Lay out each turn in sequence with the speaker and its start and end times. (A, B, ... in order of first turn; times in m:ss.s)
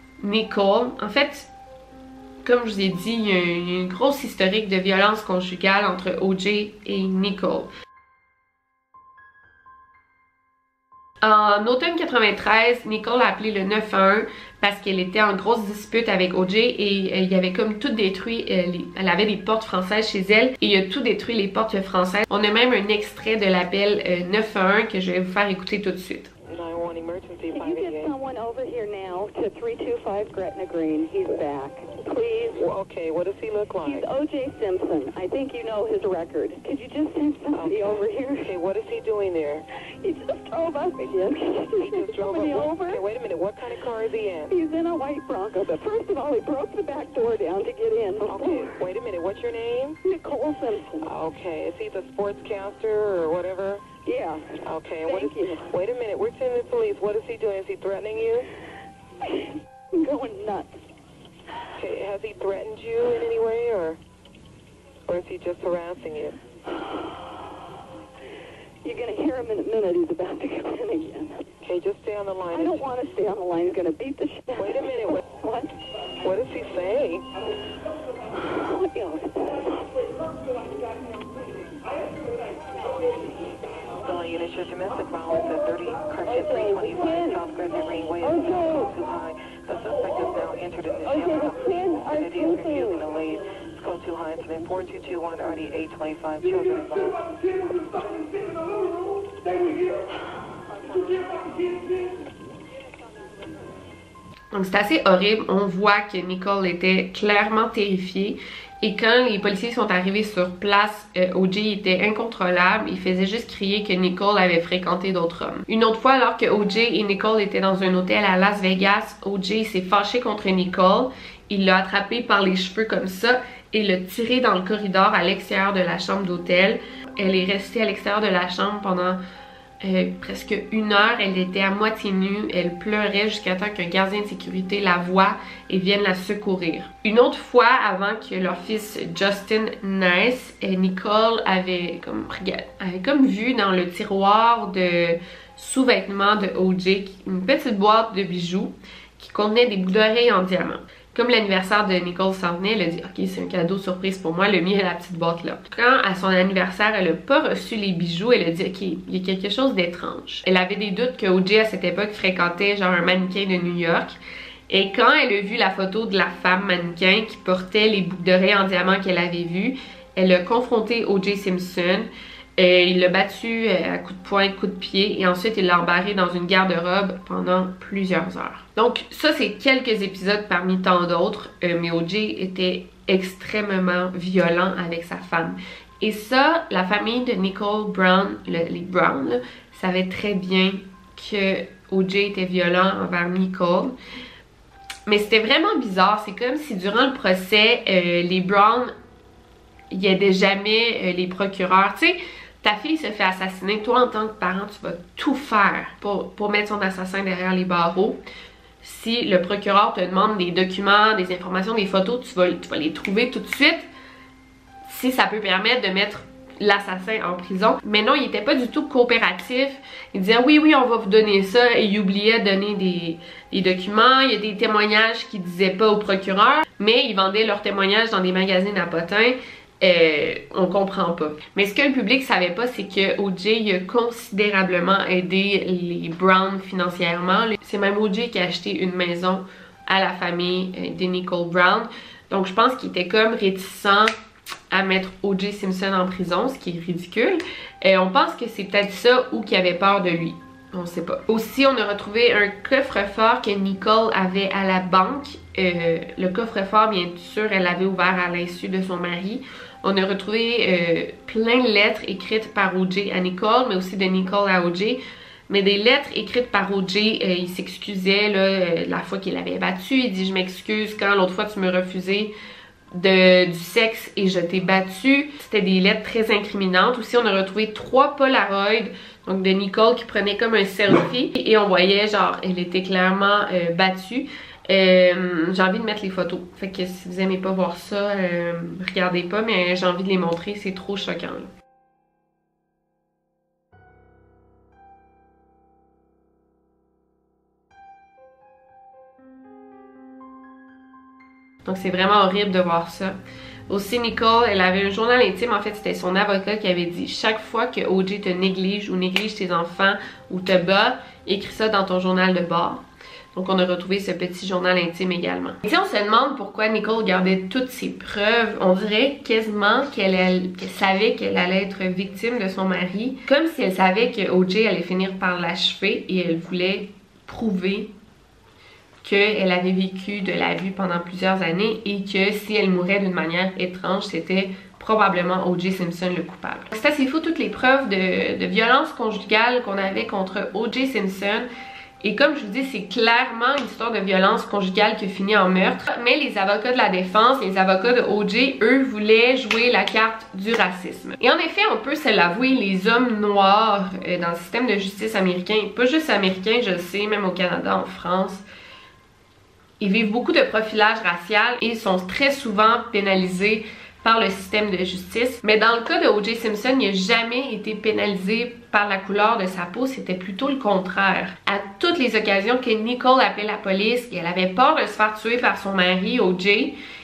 0:00.2-0:01.5 A
0:02.4-0:07.7 A
0:11.2-0:26.3 A
0:26.5-0:28.2 B
0:27.5-0:32.6 C
0:32.5-0:34.1 B
0:33.8-0:38.5 C
0:37.6-0:39.6 B
0:40.0-0:43.0 C
0:41.8-0:44.5 B
0:44.5-0:48.8 C
0:48.2-0:50.0 B
0:50.0-0:51.0 C
0:51.0-0:53.9 B
0:54.0-0:54.4 C
0:54.6-0:58.5 B
0:55.0-0:55.6 C
1:00.0-1:00.7 C
1:01.8-1:04.0 B
1:05.1-1:06.4 B
1:08.8-1:11.5 C
1:11.6-1:12.9 B
1:12.5-1:15.7 C
1:14.6-1:15.2 B
1:16.2-1:17.3 B
1:18.5-1:20.0 C
1:24.0-1:37.3 B
1:26.4-1:27.4 C
1:28.2-1:28.9 C
1:31.1-1:33.0 C
1:40.7-1:41.8 B
1:44.5-2:09.2 A
2:09.8-2:44.2 A
2:44.7-3:14.0 A
3:15.1-3:18.9 A
3:19.9-3:28.2 A
3:28.8-3:33.9 A
3:34.9-4:04.1 A
4:04.7-4:32.3 A
4:32.9-4:51.5 A
5:01.6-5:03.2 A
5:03.7-5:12.8 A
5:13.3-5:27.9 A
5:29.0-5:41.5 A
5:42.0-5:58.4 A
5:59.8-6:16.8 A